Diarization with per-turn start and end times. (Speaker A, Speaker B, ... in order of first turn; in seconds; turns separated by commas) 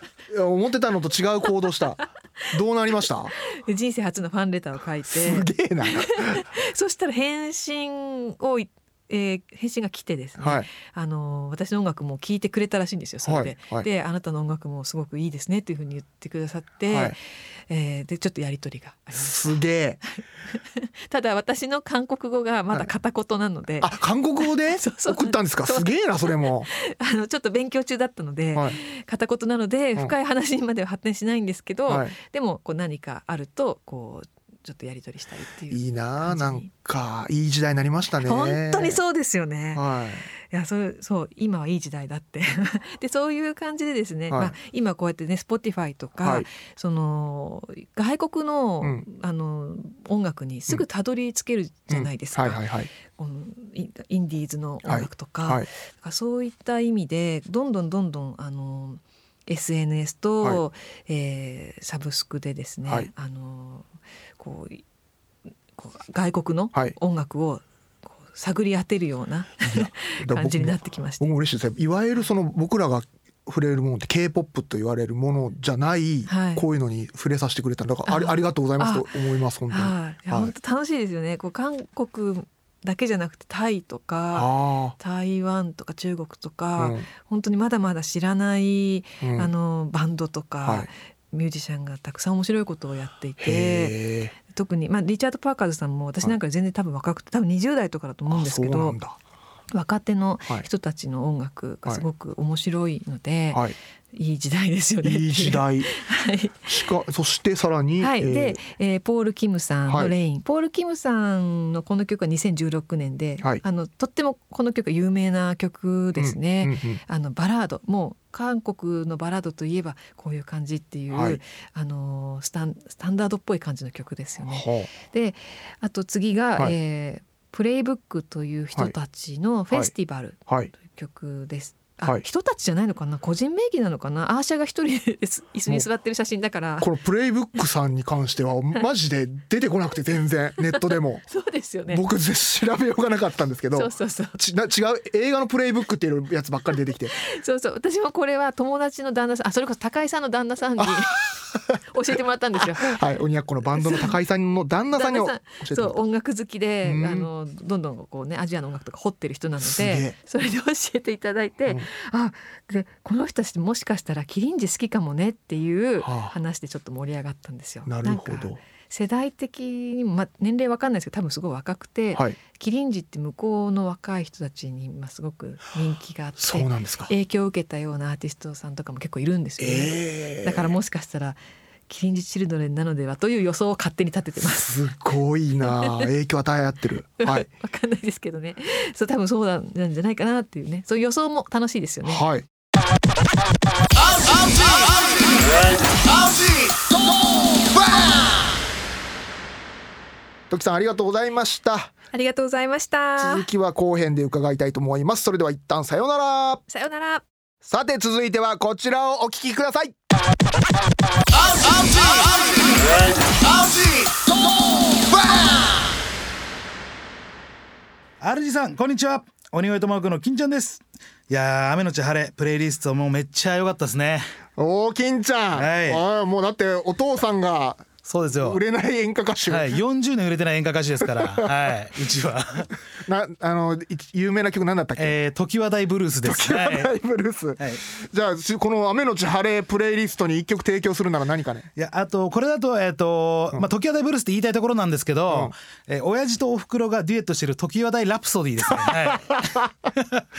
Speaker A: 0.3-3.3, Speaker B: 3.5-19.6, Speaker A: 5.1-6.4, Speaker A: 10.4-10.7, Speaker A: 13.2-13.9, Speaker A: 16.9-17.1, Speaker A: 19.1-20.0, Speaker B: 20.1-36.7, Speaker A: 23.8-26.7, Speaker A: 31.9-32.1, Speaker A: 35.7-39.0, Speaker B: 38.2-64.8, Speaker A: 39.7-40.3, Speaker A: 44.3-44.5, Speaker A: 46.2-46.5, Speaker A: 51.9-52.9, Speaker A: 54.8-55.7, Speaker B: 65.8-71.3, Speaker A: 69.6-80.5, Speaker B: 76.3-76.6, Speaker B: 78.0-79.1, Speaker B: 79.7-99.0, Speaker A: 84.3-85.0, Speaker A: 86.8-87.0, Speaker A: 89.2-89.5, Speaker A: 90.6-90.9, Speaker A: 93.4-94.3, Speaker A: 98.3-99.2, Speaker B: 99.7-106.7, Speaker A: 105.0-105.9, Speaker A: 106.7-108.6, Speaker B: 108.0-136.9, Speaker A: 109.9-110.1, Speaker A: 116.2-117.0, Speaker A: 121.1-121.4, Speaker A: 124.5-124.9, Speaker A: 130.5-130.7, Speaker A: 136.8-141.2, Speaker B: 140.6-142.0, Speaker A: 141.9-147.2, Speaker B: 143.8-144.4, Speaker B: 147.1-151.3, Speaker A: 150.8-151.6, Speaker B: 151.9-153.0, Speaker A: 152.6-156.0, Speaker B: 153.8-154.1, Speaker B: 154.9-184.7, Speaker A: 156.8-157.3, Speaker A: 159.6-160.1, Speaker A: 166.0-166.3, Speaker A: 167.8-168.6, Speaker A: 176.4-177.1, Speaker A: 179.6-180.8, Speaker A: 184.5-187.5, Speaker B: 185.7-185.9, Speaker B: 187.2-192.2, Speaker A: 192.0-192.5, Speaker A: 197.5-198.3, Speaker A: 200.5-201.9, Speaker B: 202.1-203.5, Speaker A: 203.2-206.6, Speaker B: 206.7-207.2, Speaker A: 207.6-209.9, Speaker A: 214.9-215.7, Speaker C: 218.2-224.2, Speaker A: 224.6-229.8, Speaker C: 225.5-226.0, Speaker C: 228.0-228.6, Speaker C: 229.5-232.7, Speaker A: 231.2-231.5, Speaker A: 233.0-235.1, Speaker C: 235.0-236.9, Speaker A: 236.2-241.7, Speaker C: 241.8-250.2, Speaker A: 245.3-245.5, Speaker A: 248.7-249.7